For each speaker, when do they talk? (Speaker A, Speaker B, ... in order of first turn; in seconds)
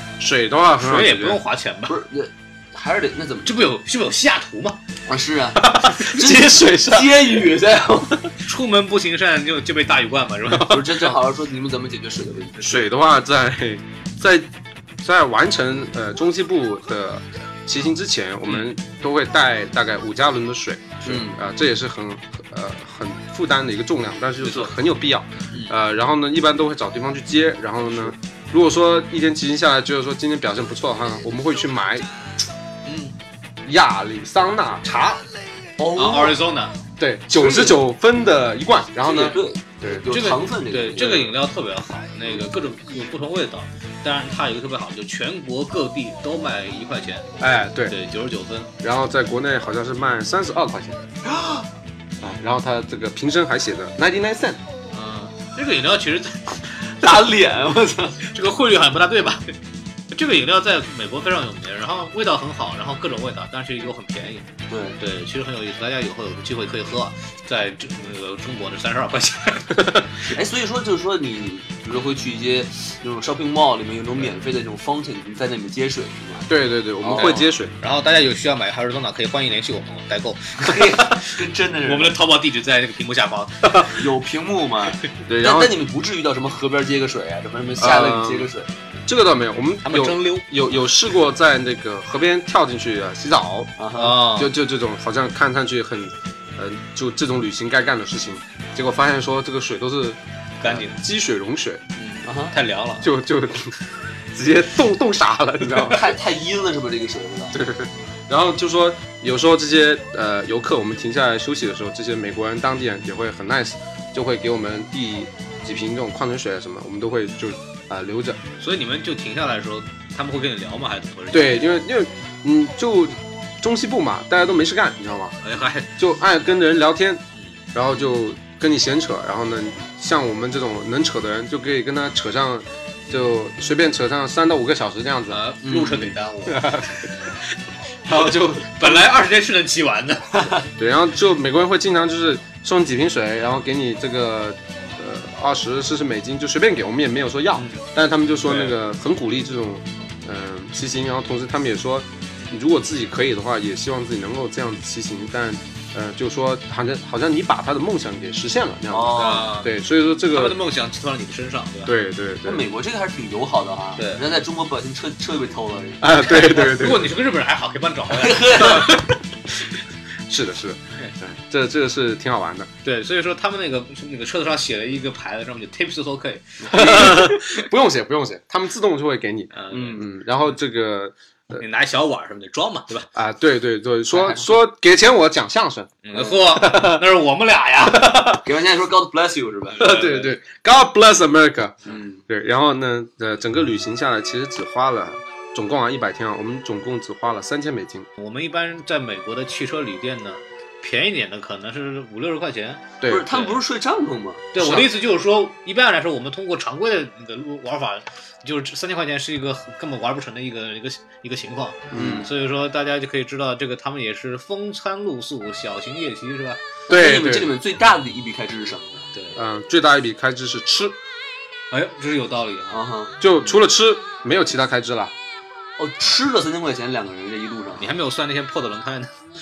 Speaker A: 0.2-1.4, 5.6-7.4, 12.6-14.5, 15.0-32.1, 33.6-35.2, 37.0-40.0, 47.4-48.0, 48.8-51.0, 52.2-54.6, 76.5-77.7, 85.3-85.8, 87.8-88.5, 89.1-101.8, 103.0-103.8, 104.3-106.0, 107.5-118.4, 121.3-125.3, 126.0-127.2, 127.7-135.4, 136.5-137.0, 138.1-139.0, 140.8-160.6, 161.8-162.7, 166.0-167.1, 170.3-172.7, 176.7-181.6, 183.1-187.0, 189.8-198.1, 203.0-203.3, 204.6-204.9, 211.9-212.3, 216.9-217.5, 219.3-221.0, 223.2-225.1
Speaker B: 0.8-2.0, 3.5-4.8, 8.4-10.9, 24.4-24.7, 32.8-33.1, 36.0-36.8, 40.1-47.3, 47.9-48.7, 54.9-56.5, 58.2-59.5, 60.1-70.0, 77.1-83.9, 89.8-90.5, 93.9-94.5, 100.6-101.0, 102.0-103.1, 118.6-121.7, 125.4-125.9, 135.3-137.3, 138.1-140.6, 147.6-147.8, 148.4-148.8, 159.1-161.9, 164.0-164.2, 166.3-168.9, 172.8-177.6, 179.5-180.1, 181.6-183.1, 186.0-188.4, 189.7-190.3, 198.2-203.6, 204.5-216.6, 221.7-222.8, 227.8-229.1
Speaker C: 1.9-3.6, 5.1-8.3, 10.6-12.8, 21.0-21.4, 35.8-36.4, 37.4-37.8, 39.0-41.3, 51.2-51.6, 57.0-58.2, 64.7-65.0, 70.3-76.5, 77.0-77.3, 80.6-82.2, 83.9-88.7, 93.8-94.2, 102.2-102.5, 105.9-107.6, 135.6-136.1, 158.9-159.5, 162.4-166.6, 168.1-169.0, 184.1-184.5, 188.3-189.9, 191.9-192.2, 203.1-204.5, 211.9-212.3, 216.9-219.0, 222.7-223.1, 225.8-227.9